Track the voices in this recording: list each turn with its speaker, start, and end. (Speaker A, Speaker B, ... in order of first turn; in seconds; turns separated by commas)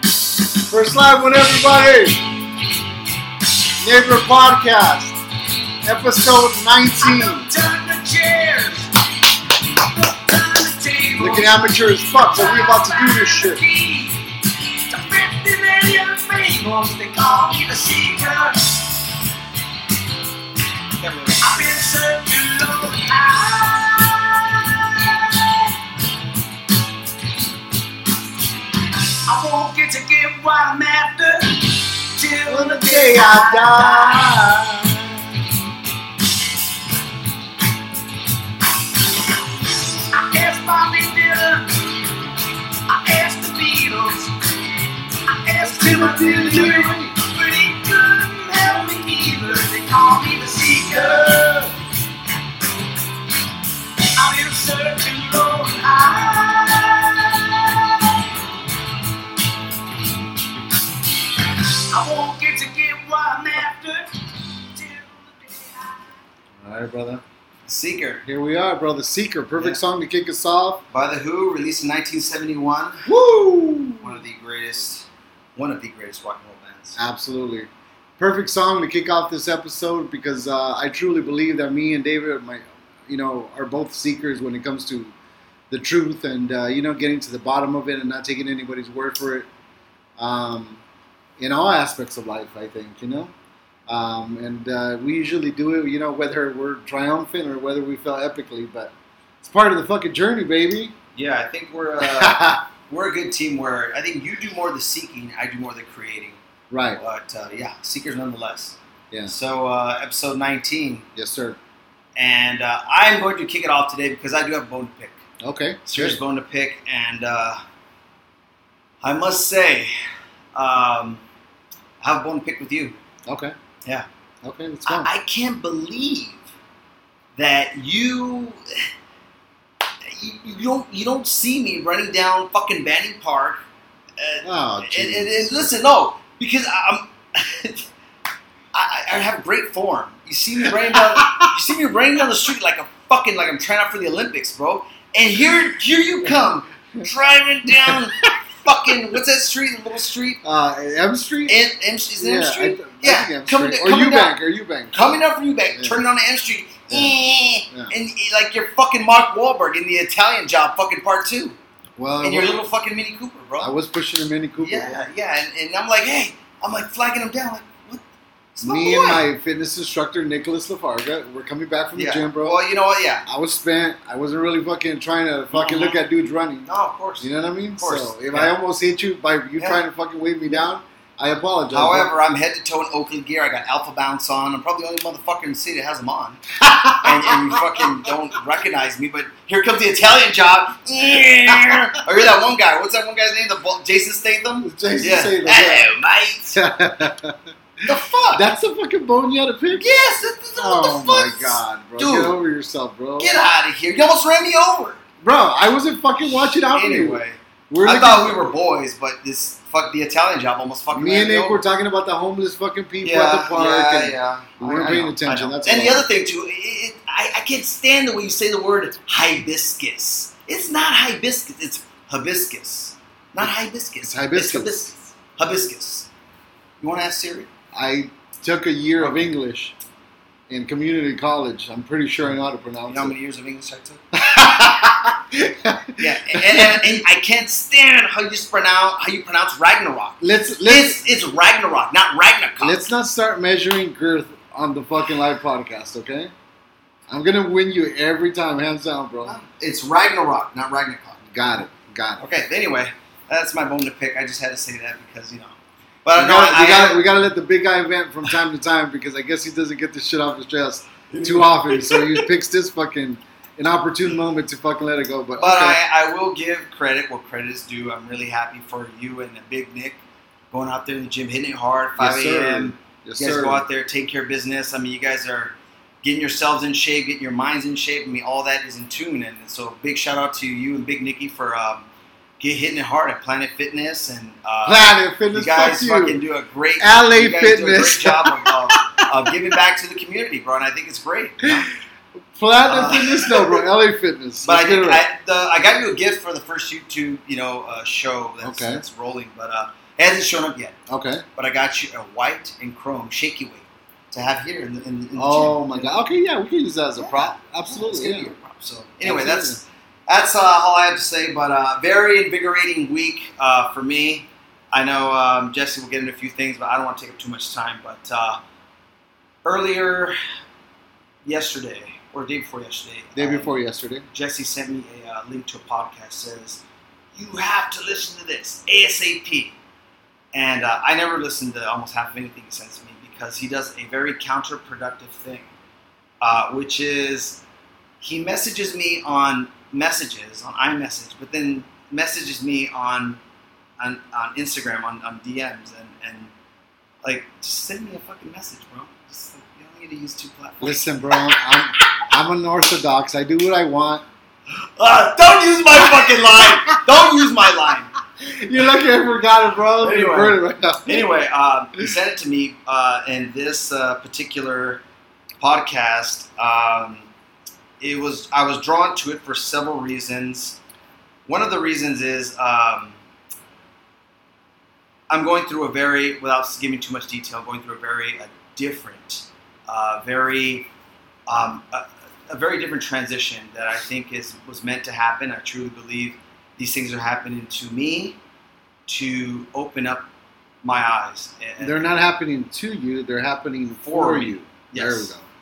Speaker A: 0.6-2.2, Speaker A: 3.8-5.2, Speaker A: 5.8-7.5, Speaker B: 7.0-8.9, Speaker B: 10.2-11.5, Speaker A: 11.2-13.6, Speaker B: 12.3-14.1, Speaker B: 14.9-18.9, Speaker C: 16.8-17.1, Speaker C: 20.9-22.2, Speaker B: 21.6-25.4, Speaker B: 29.3-34.2, Speaker C: 30.3-30.6, Speaker A: 32.5-35.4, Speaker B: 40.1-42.1, Speaker B: 42.9-44.3, Speaker B: 45.3-51.6, Speaker A: 45.6-47.1, Speaker C: 45.9-46.9, Speaker C: 48.6-48.9, Speaker A: 51.0-51.6, Speaker B: 54.0-58.1, Speaker B: 61.9-63.9, Speaker A: 66.6-67.2, Speaker C: 67.7-68.2, Speaker A: 68.2-70.8, Speaker C: 69.5-69.8, Speaker C: 70.9-73.1, Speaker A: 73.0-74.2, Speaker C: 74.0-77.0, Speaker A: 77.0-85.1, Speaker A: 85.7-89.5, Speaker A: 90.2-90.8, Speaker A: 91.4-93.3, Speaker A: 93.9-100.9, Speaker C: 101.1-106.4, Speaker A: 102.0-102.6, Speaker A: 106.7-107.0, Speaker C: 107.0-111.1, Speaker A: 111.2-111.6, Speaker C: 112.2-115.2, Speaker A: 115.4-116.2, Speaker C: 115.8-117.6, Speaker C: 119.0-119.9, Speaker C: 120.5-121.2, Speaker C: 122.0-123.0, Speaker A: 123.2-123.5, Speaker A: 124.4-125.1, Speaker C: 124.8-126.5, Speaker C: 127.3-128.9, Speaker C: 130.0-133.6, Speaker C: 134.2-137.9, Speaker A: 134.4-135.7, Speaker C: 138.7-150.4, Speaker A: 140.6-141.5, Speaker A: 147.7-148.3, Speaker A: 150.4-151.6, Speaker C: 151.4-154.4, Speaker A: 152.2-154.9, Speaker C: 154.9-161.6, Speaker A: 156.9-157.9, Speaker A: 162.0-162.6, Speaker C: 162.2-163.7, Speaker A: 163.6-165.0, Speaker C: 164.6-168.0, Speaker C: 168.5-169.3, Speaker A: 168.6-172.6, Speaker C: 171.9-173.2, Speaker A: 173.2-176.7, Speaker C: 175.5-176.0, Speaker C: 176.7-178.6, Speaker A: 177.2-182.1, Speaker C: 179.6-179.8, Speaker C: 181.7-196.6, Speaker A: 186.6-187.8, Speaker A: 191.5-191.8, Speaker A: 194.6-195.9, Speaker A: 196.5-197.4, Speaker C: 197.8-198.4, Speaker A: 198.3-199.9, Speaker C: 199.7-202.4, Speaker A: 200.6-203.3, Speaker C: 203.2-205.0, Speaker A: 205.2-208.6, Speaker C: 206.2-211.6, Speaker A: 210.9-216.1, Speaker C: 213.0-226.1, Speaker A: 224.0-224.8, Speaker C: 226.8-227.5, Speaker A: 227.7-229.7, Speaker C: 229.0-229.3, Speaker A: 230.5-233.1, Speaker C: 232.8-234.8, Speaker A: 234.2-237.0, Speaker C: 236.0-242.8, Speaker A: 240.2-241.1, Speaker A: 242.6-246.3, Speaker A: 247.1-249.4, Speaker C: 249.2-251.2, Speaker A: 251.3-252.2, Speaker C: 252.2-257.1, Speaker A: 256.1-265.8, Speaker C: 261.1-262.3, Speaker C: 265.4-281.9, Speaker A: 272.0-273.6, Speaker C: 282.4-291.7, Speaker A: 284.6-286.2, Speaker A: 286.8-289.0, Speaker A: 292.3-295.0, Speaker C: 292.6-293.6, Speaker C: 294.4-300.8, Speaker A: 298.4-298.8, Speaker A: 300.9-301.2, Speaker C: 301.4-306.1, Speaker A: 305.1-308.3, Speaker C: 307.0-318.4, Speaker A: 309.0-309.6, Speaker C: 319.4-320.2, Speaker C: 321.2-323.6, Speaker A: 323.1-324.1, Speaker C: 324.1-326.6, Speaker C: 327.1-329.6, Speaker C: 330.3-335.5, Speaker C: 336.2-337.4, Speaker C: 338.0-343.2, Speaker C: 343.8-346.3, Speaker C: 347.0-351.6, Speaker A: 350.6-354.0, Speaker C: 354.5-357.9, Speaker A: 355.8-356.5, Speaker A: 358.2-361.1, Speaker C: 359.8-364.8, Speaker C: 365.4-367.1, Speaker C: 367.8-370.6, Speaker C: 371.3-373.0, Speaker C: 375.1-380.7, Speaker C: 381.3-388.2, Speaker C: 388.9-390.1, Speaker C: 390.6-391.9, Speaker A: 391.6-395.2, Speaker C: 393.8-395.1